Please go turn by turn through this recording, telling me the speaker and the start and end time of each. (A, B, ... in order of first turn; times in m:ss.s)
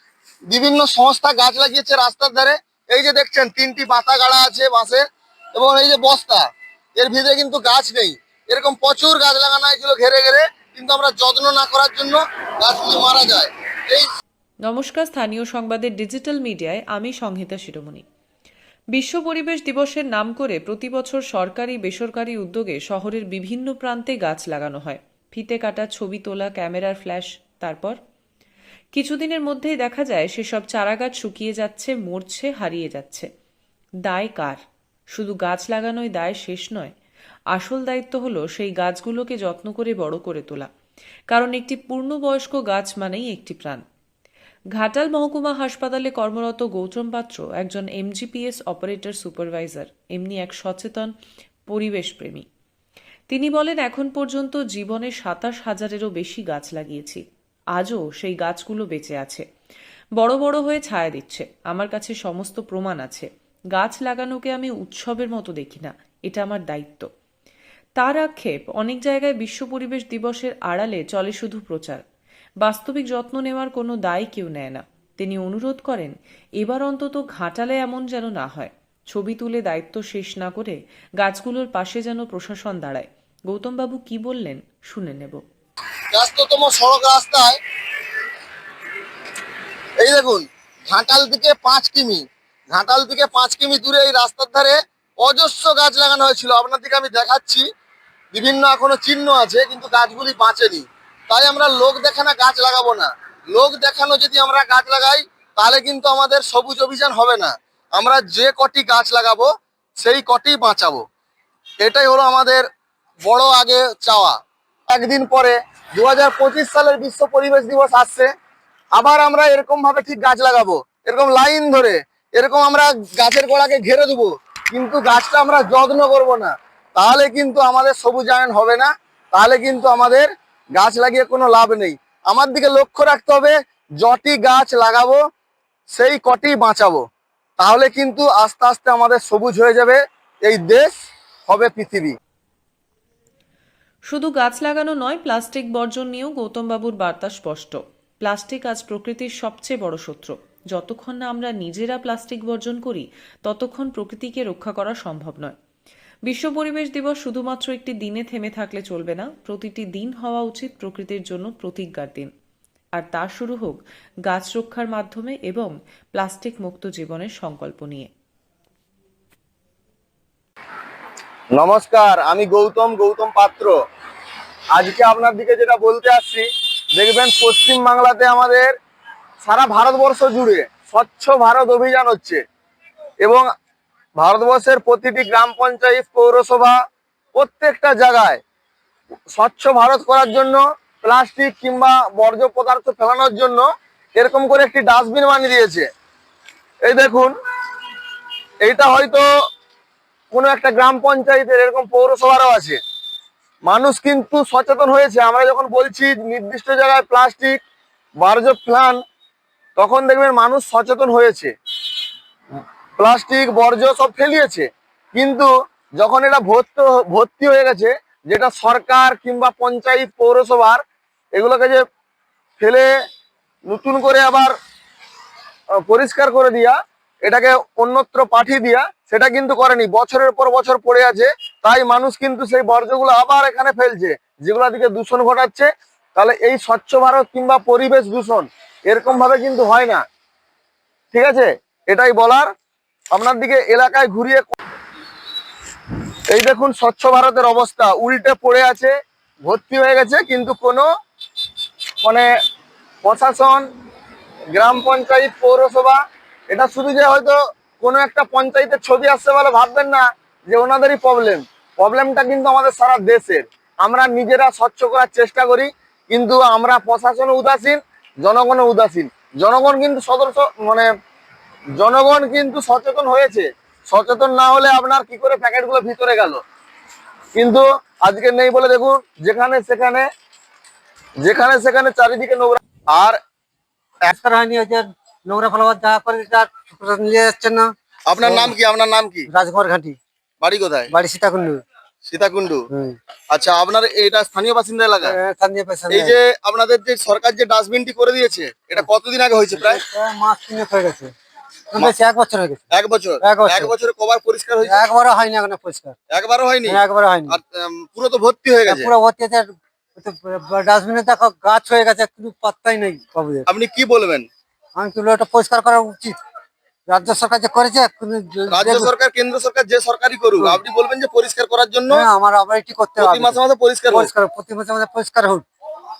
0:00.5-0:05.0 A
0:05.5-0:06.4 A
0:07.0-0:14.1 A
0:14.6-0:18.0 B
0:18.9-0:28.0 B
0:28.9-0:33.2 B
0:34.0-0:34.6 B
0:35.1-0:36.9 B
0:37.5-0:40.7 B
0:41.3-0:43.8 B
0:44.8-0:51.1 B
0:51.7-0:52.4 B
0:53.3-0:57.2 B
0:57.7-0:59.4 B
1:00.2-1:07.1 B
1:08.0-1:12.0 B
1:12.6-1:25.4 B
1:26.1-1:27.6 A
1:30.0-1:37.6 A
1:38.3-1:49.5 A
1:50.0-1:51.0 A
1:51.8-1:52.6 A
1:53.2-1:54.4 A
1:54.9-1:58.3 A
1:58.9-2:15.2 A
2:15.9-2:17.0 A
2:17.6-2:20.9 A
2:21.5-2:22.2 A
2:24.1-2:35.5 B
2:36.3-2:42.3 B
2:43.0-2:48.1 B
2:51.5-2:53.7 A
2:54.8-2:58.7 A
2:59.4-3:02.4 A
3:04.2-3:06.8 A
3:07.3-3:08.4 A
3:09.3-3:15.9 A
3:16.8-3:17.3 A
3:18.6-3:19.2 A
3:20.3-3:22.8 A
3:23.6-3:27.6 A
3:28.2-3:29.0 A
3:29.8-3:31.5 A
3:33.0-3:40.8 A
3:41.3-3:41.8 A
3:42.6-3:42.9 A
3:43.7-3:44.5 A
3:45.8-4:00.0 A
4:01.1-4:02.5 A
4:03.1-4:04.5 A
4:06.3-4:08.9 A
4:09.4-4:10.8 A
4:13.0-4:13.6 A
4:14.5-4:16.0 A
4:16.5-4:30.9 A
4:31.8-4:36.4 A
4:37.4-4:40.0 A
4:41.2-4:43.2 A
4:44.1-4:48.5 C
4:48.1-4:49.3 A
4:49.3-4:50.0 C
4:50.4-4:50.9 A
4:50.9-4:51.6 C
4:52.1-4:52.6 A
4:52.7-4:53.0 C
4:53.3-4:55.1 A
4:55.0-4:56.2 C
4:55.9-4:59.8 A
4:59.6-5:01.1 C
5:01.7-5:02.7 C
5:02.7-5:04.8 A
5:03.2-5:03.7 C
5:04.6-5:05.9 C
5:06.1-5:08.9 A
5:06.6-5:07.4 C
5:08.7-5:13.5 C
5:13.5-5:14.3 A
5:14.8-5:16.2 C
5:16.9-5:18.9 C
5:18.5-5:22.0 A
5:21.9-5:23.4 C
5:23.0-5:24.1 A
5:23.9-5:25.4 C